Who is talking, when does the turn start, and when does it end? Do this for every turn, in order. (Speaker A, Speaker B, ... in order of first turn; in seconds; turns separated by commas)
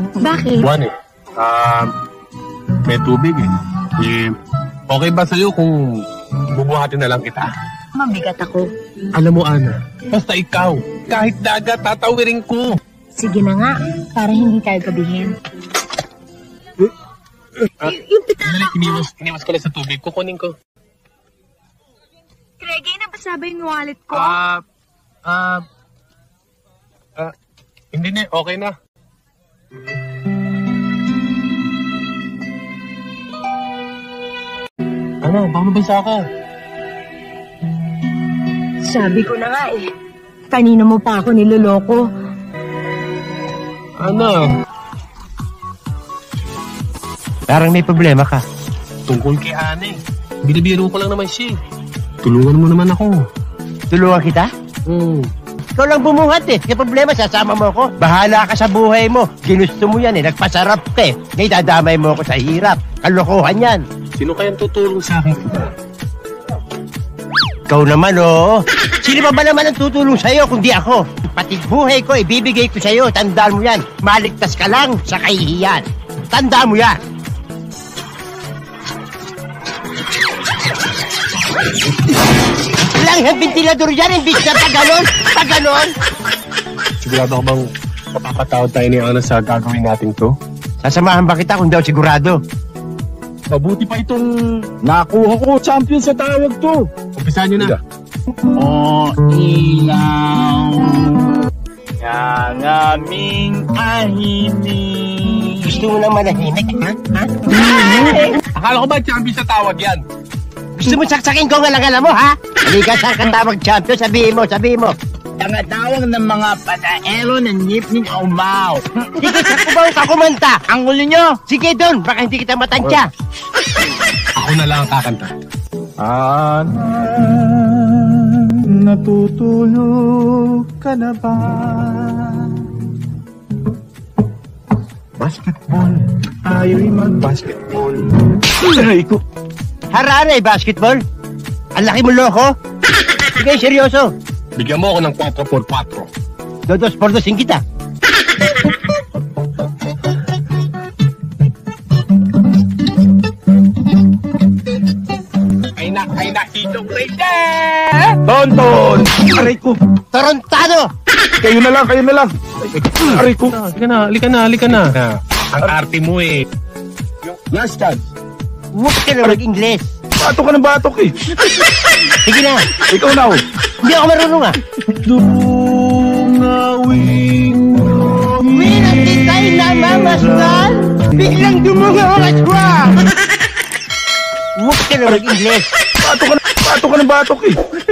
Speaker A: 0.2-0.6, Speaker B: 0.6-1.9, Speaker B: 2.9-4.3, Speaker B: 4.9-7.5, Speaker A: 7.9-8.7, Speaker B: 9.1-12.8, Speaker A: 13.2-15.4, Speaker A: 17.8-19.0, Speaker B: 17.8-20.5, Speaker A: 22.6-24.4, Speaker B: 24.1-24.6, Speaker B: 25.2-25.6, Speaker B: 27.9-28.7, Speaker B: 35.2-36.2, Speaker A: 38.9-39.9, Speaker A: 40.5-42.0, Speaker B: 44.0-44.5, Speaker C: 47.5-48.4, Speaker B: 49.1-51.5, Speaker B: 52.2-53.2, Speaker C: 53.9-54.5, Speaker B: 54.9-55.3, Speaker C: 55.8-63.8, Speaker B: 64.2-65.7, Speaker C: 67.7-77.0, Speaker C: 82.8-85.9, Speaker B: 87.0-90.3, Speaker C: 90.8-92.4, Speaker B: 93.5-94.3, Speaker D: 94.8-96.9, Speaker B: 97.2-97.8, Speaker D: 98.5-101.2, Speaker D: 102.0-105.8, Speaker C: 105.6-107.5, Speaker B: 107.5-110.0, Speaker C: 110.8-114.9, Speaker D: 115.4-119.1, Speaker C: 119.2-120.6, Speaker D: 120.7-121.4, Speaker C: 121.4-123.1, Speaker B: 124.3-125.3, Speaker D: 126.0-132.6, Speaker D: 135.2-139.2, Speaker C: 139.9-141.0, Speaker C: 141.8-142.5, Speaker C: 143.2-144.1, Speaker B: 144.5-146.1, Speaker C: 146.7-147.6, Speaker B: 155.8-158.2, Speaker D: 158.2-159.8, Speaker C: 160.1-160.9, Speaker D: 161.4-162.3, Speaker B: 162.7-166.3, Speaker D: 163.1-163.4, Speaker B: 167.2-168.0, Speaker C: 168.7-169.9, Speaker D: 170.2-171.1, Speaker C: 172.2-172.7, Speaker D: 172.9-173.4, Speaker C: 173.8-174.6, Speaker D: 175.0-178.3, Speaker C: 178.3-183.1, Speaker C: 184.6-185.7, Speaker D: 186.0-187.6